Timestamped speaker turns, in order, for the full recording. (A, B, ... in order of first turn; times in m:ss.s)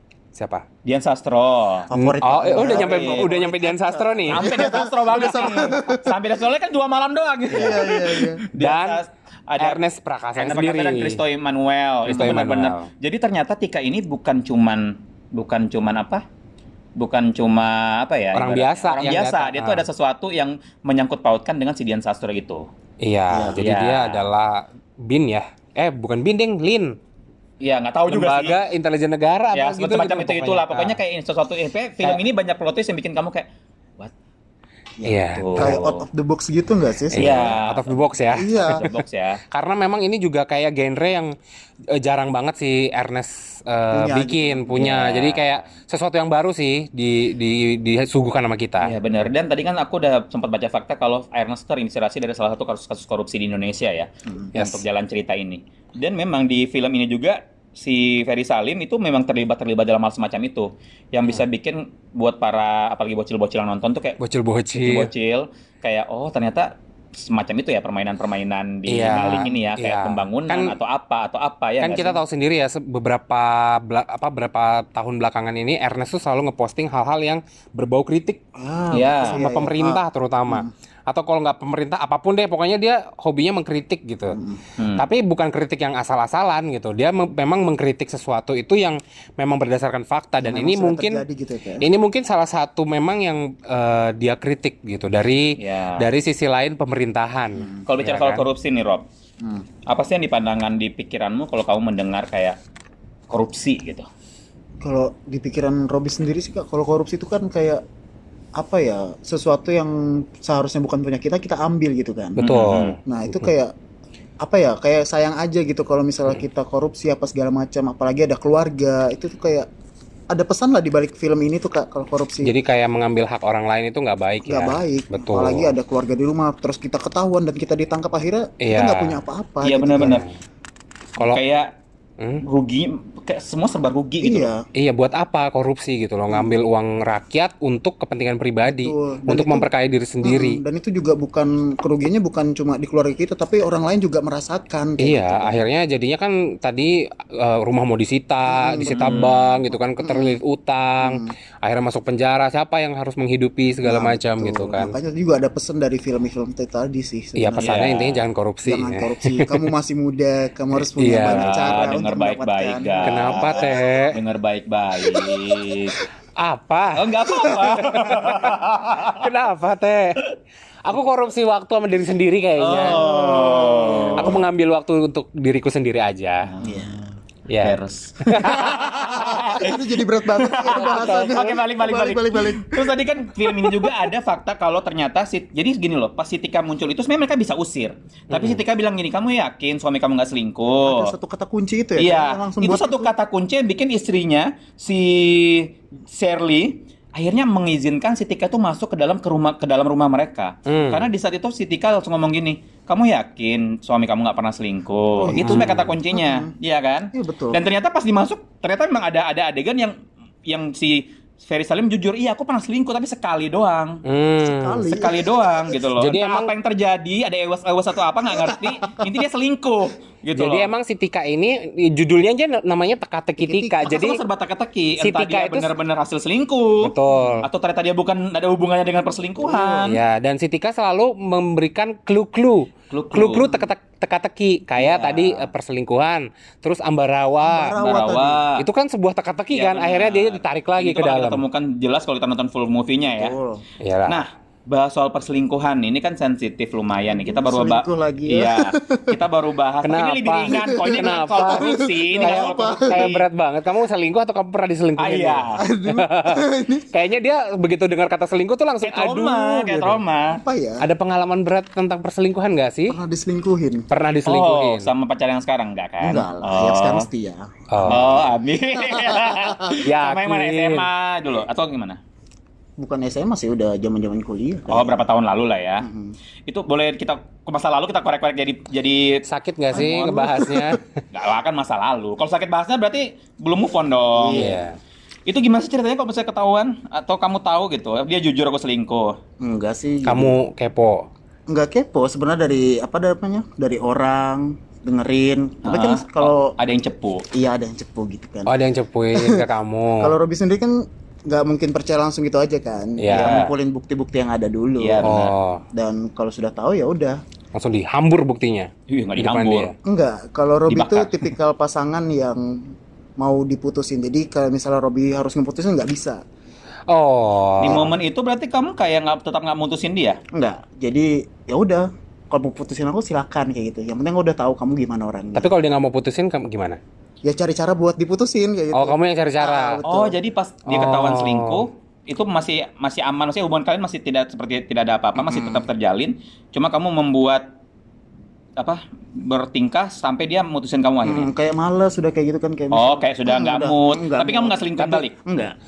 0:00.3-0:00.6 A
0:00.8-0:01.9 B
0:01.9-0:06.1 C
0:01.9-0:04.5 A
0:02.5-0:03.4 B
0:04.3-0:09.8 B
0:07.5-0:08.4 C
0:07.5-0:07.8 A
0:08.5-0:09.0 A
0:09.6-0:11.2 A
0:10.4-0:16.2 B
0:12.0-0:12.9 A
0:17.0-0:22.7 B
0:18.3-0:19.8 A
0:23.0-0:27.0 A
0:23.3-0:23.6 C
0:23.6-0:24.2 B
0:27.6-0:28.6 B
0:28.1-0:31.0 A
0:29.5-0:33.5 B
0:35.0-0:37.5 C
0:35.0-0:35.8 A
0:35.4-0:36.0 B
0:37.1-0:38.8 A
0:37.2-0:39.4 B
0:38.3-0:38.8 C
0:39.5-0:41.3 A
0:41.9-0:48.9 A
0:43.9-0:44.9 C
0:44.8-0:45.6 B
0:48.8-1:04.2 B
0:54.5-0:54.8 A
1:04.2-1:05.1 A
1:04.7-1:12.2 B
1:08.9-1:10.7 A
1:11.8-1:18.4 A
1:18.6-1:20.7 C
1:18.9-1:19.4 B
1:19.3-1:24.4 A
1:24.3-1:24.6 C
1:24.8-1:25.0 B
1:25.0-1:31.2 A
1:30.4-1:31.8 C
1:31.8-1:38.4 A
1:35.6-1:36.1 B
1:37.8-1:39.0 B
1:39.4-1:39.6 C
1:39.9-1:42.6 B
1:43.3-1:44.0 B
1:44.8-1:47.8 C
1:48.6-1:52.4 C
1:52.4-1:53.0 A
1:52.4-1:53.0 B
1:53.0-1:53.7 C
1:54.4-1:59.7 C
2:00.3-2:02.5 C
2:02.4-2:05.7 A
2:04.4-2:10.2 C
2:08.6-2:09.2 A
2:09.6-2:10.3 B
2:10.0-2:10.3 A
2:11.2-2:11.7 B
2:12.4-2:14.5 B
2:14.2-2:14.6 C
2:14.7-2:20.6 A
2:18.6-2:19.7 C
2:20.2-2:25.6 C
2:25.0-2:34.9 A
2:28.5-2:29.3 C
2:28.9-2:29.6 B
2:30.0-2:30.4 C
2:31.0-2:31.3 C
2:33.8-2:37.9 C
2:37.4-2:39.6 A
2:37.6-2:38.2 B
2:38.6-2:43.7 C
2:41.0-2:41.9 A
2:41.2-2:46.0 B
2:43.0-2:44.2 A
2:45.1-2:45.8 C
2:46.4-2:48.5 A
2:47.0-2:49.2 B
2:49.1-2:50.2 A
2:50.8-2:53.0 A
2:52.6-2:54.4 B
2:52.7-2:54.4 C
2:54.2-2:56.5 A
2:56.4-2:57.1 B
2:56.6-2:57.0 C
2:57.5-2:58.6 A
2:57.6-3:11.1 B
2:58.4-3:04.0 C
3:00.8-3:01.4 A
3:08.3-3:08.6 A
3:10.8-3:13.1 C
3:12.0-3:29.9 B
3:20.7-3:21.0 A
3:25.2-3:26.5 C
3:25.4-3:25.9 A
3:27.1-3:27.6 C
3:30.4-3:34.0 B
3:34.0-3:34.9 A
3:34.4-3:35.3 C
3:34.9-3:40.7 B
3:36.0-3:36.5 A
3:38.4-3:38.7 C
3:40.3-3:44.2 A
3:43.4-3:43.9 C
3:43.8-3:46.9 B
3:45.0-3:45.7 A
3:46.8-3:47.5 A
3:47.4-3:50.0 B
3:49.4-3:49.9 C
3:49.8-3:57.8 A
3:52.9-3:53.6 B
3:54.8-3:55.4 B
3:57.4-3:58.4 C
3:57.8-3:58.6 B
3:58.6-4:01.4 A
3:59.5-4:03.3 B
4:03.1-4:03.6 C
4:03.8-4:04.2 A
4:04.1-4:13.2 B
4:07.1-4:09.2 C
4:09.8-4:20.0 A
4:10.5-4:13.1 C
4:15.0-4:15.6 B
4:15.6-4:16.9 C
4:18.8-4:20.4 B
4:20.3-4:20.8 C
4:20.8-4:23.0 A
4:22.9-4:23.9 C
4:23.9-4:24.9 A
4:24.2-4:27.1 B
4:26.0-4:28.2 C
4:27.7-4:28.1 A
4:27.9-4:32.0 B
4:28.8-4:29.8 C
4:29.8-4:30.8 A
4:32.8-4:35.0 C
4:34.7-4:35.9 B
4:35.8-4:36.2 C
4:36.5-4:40.2 B
4:39.2-4:40.8 A
4:39.7-4:40.8 C
4:41.1-4:44.5 B
4:44.1-4:44.6 C
4:44.3-4:44.8 A
4:45.3-4:49.2 B
4:49.4-4:50.4 C
4:50.0-4:51.1 A
4:51.5-4:56.5 C
4:55.6-4:57.2 B
4:57.3-4:58.5 C
4:58.4-5:00.1 A
4:59.1-4:59.4 C
5:00.0-5:05.2 C
5:03.0-5:03.4 A
5:03.1-5:03.5 B
5:04.8-5:05.3 B
5:05.0-5:05.6 A
5:05.7-5:07.2 C
5:07.5-5:09.7 A
5:08.9-5:09.7 B
5:09.8-5:16.2 C
5:10.7-5:11.2 B
5:16.9-5:17.8 A
5:17.6-5:20.2 B
5:17.6-5:17.9 C
5:20.3-5:25.5 C
5:25.3-5:26.8 A
5:27.2-5:30.2 C
5:28.7-5:29.8 A
5:29.8-5:37.5 B
5:30.7-5:31.6 A
5:35.2-5:35.6 C
5:38.6-5:41.3 B
5:41.0-5:45.5 C
5:42.7-5:45.2 B